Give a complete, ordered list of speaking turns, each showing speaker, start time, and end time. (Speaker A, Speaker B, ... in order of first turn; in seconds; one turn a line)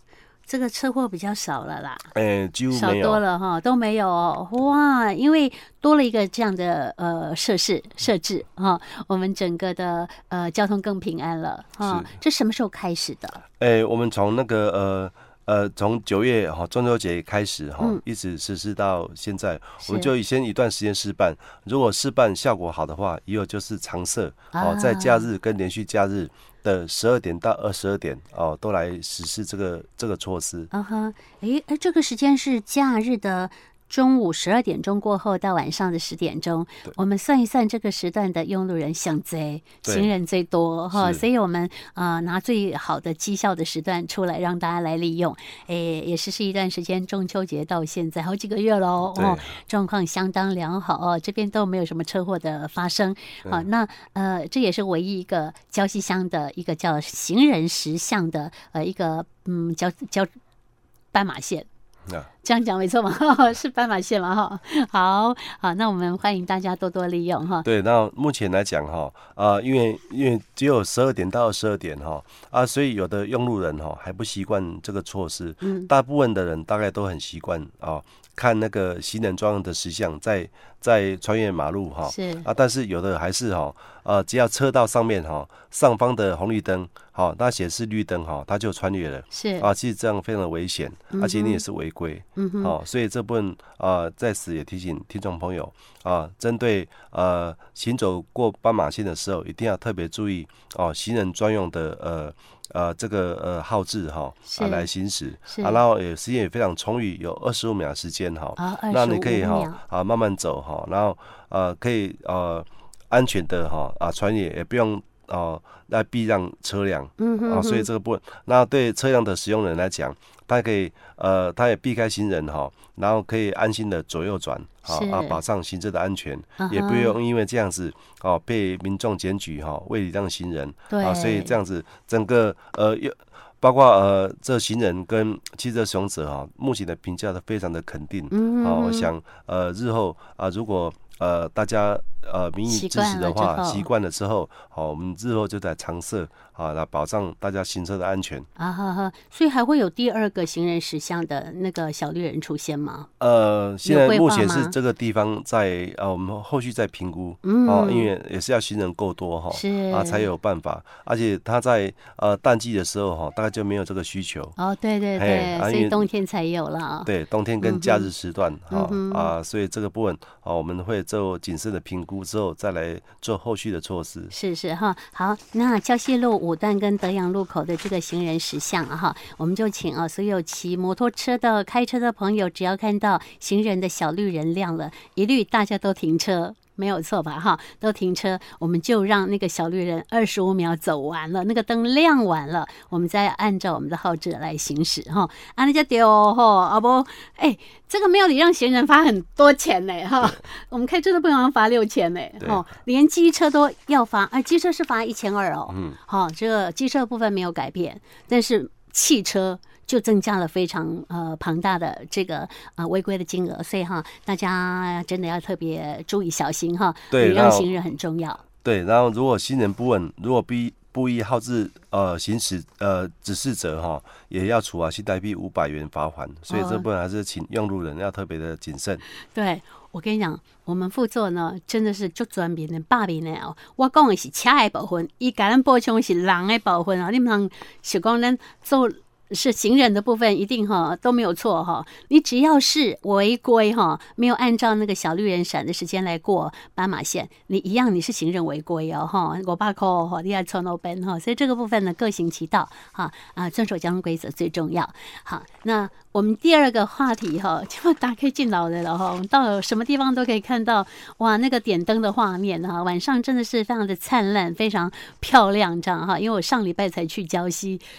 Speaker A: 0.5-2.1
Speaker B: 2.1-3.2
Speaker A: 2.7-13.4
Speaker B: 11.8-12.1
Speaker B: 13.6-30.7
Speaker A: 19.8-20.1
Speaker A: 24.5-25.3
Speaker A: 30.7-60.3
Speaker B: 39.8-40.1
Speaker B: 40.9-41.2
Speaker B: 49.1-49.5
Speaker A: 61.1-61.7
Speaker A: 62.4-67.7
Speaker B: 67.6-148.5
Speaker A: 75.6-75.9
Speaker A: 82.0-82.5
Speaker A: 89.3-89.7
Speaker A: 91.1-91.6
Speaker A: 92.4-92.7
Speaker A: 104.5-104.9
Speaker A: 105.5-105.8
Speaker A: 108.6-109.8
Speaker A: 117.2-117.9
Speaker A: 124.9-125.4
Speaker A: 126.6-127.1
Speaker A: 130.9-131.5
Speaker A: 138.3-139.1
Speaker A: 142.7-143.9
Speaker A: 148.6-153.1
Speaker B: 153.2-164.6
Speaker A: 153.8-154.7
Speaker A: 157.4-158.1
Speaker A: 159.5-160.3
Speaker A: 164.6-167.1
Speaker B: 165.2-166.1
Speaker B: 167.1-174.3
Speaker A: 167.6-168.1
Speaker A: 168.7-169.3
Speaker A: 174.3-218.4
Speaker B: 205.7-206.0
Speaker B: 217.1-217.7
Speaker B: 218.6-229.0
Speaker A: 226.5-226.8
Speaker A: 229.3-267.8